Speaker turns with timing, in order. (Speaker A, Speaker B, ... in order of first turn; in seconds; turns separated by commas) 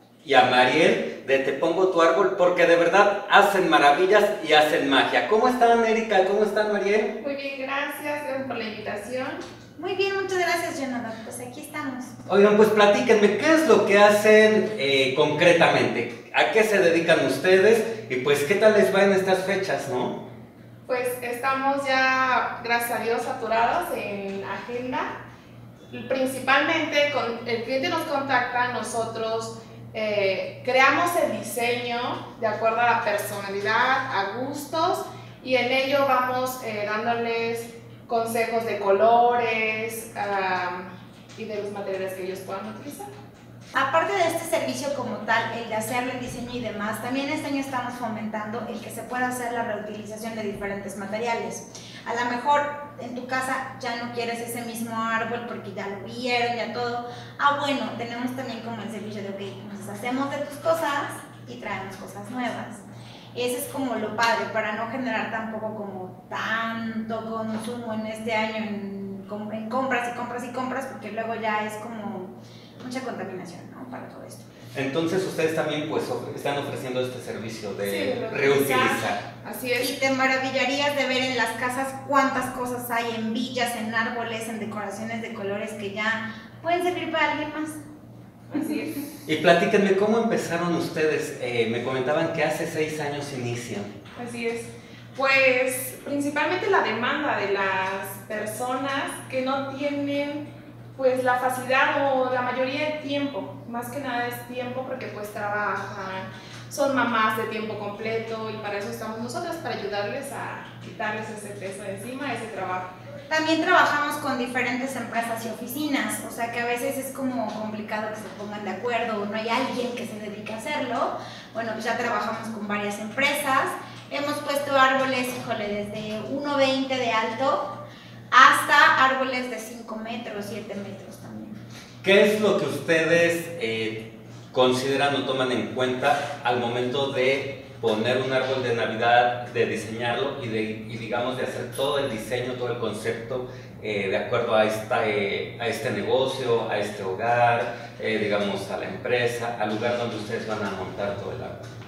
Speaker A: 0.2-7.1, Speaker B: 7.2-9.4, Speaker C: 9.8-12.1, Speaker A: 12.3-20.2, Speaker B: 20.9-25.1, Speaker B: 25.9-43.1, Speaker C: 43.7-74.5, Speaker A: 74.7-79.2, Speaker B: 77.8-79.9, Speaker C: 79.8-87.8, Speaker B: 88.5-89.0, Speaker A: 89.2-93.9, Speaker B: 94.2-112.9, Speaker C: 113.3-127.7, Speaker C: 128.3-131.6, Speaker A: 132.0-151.7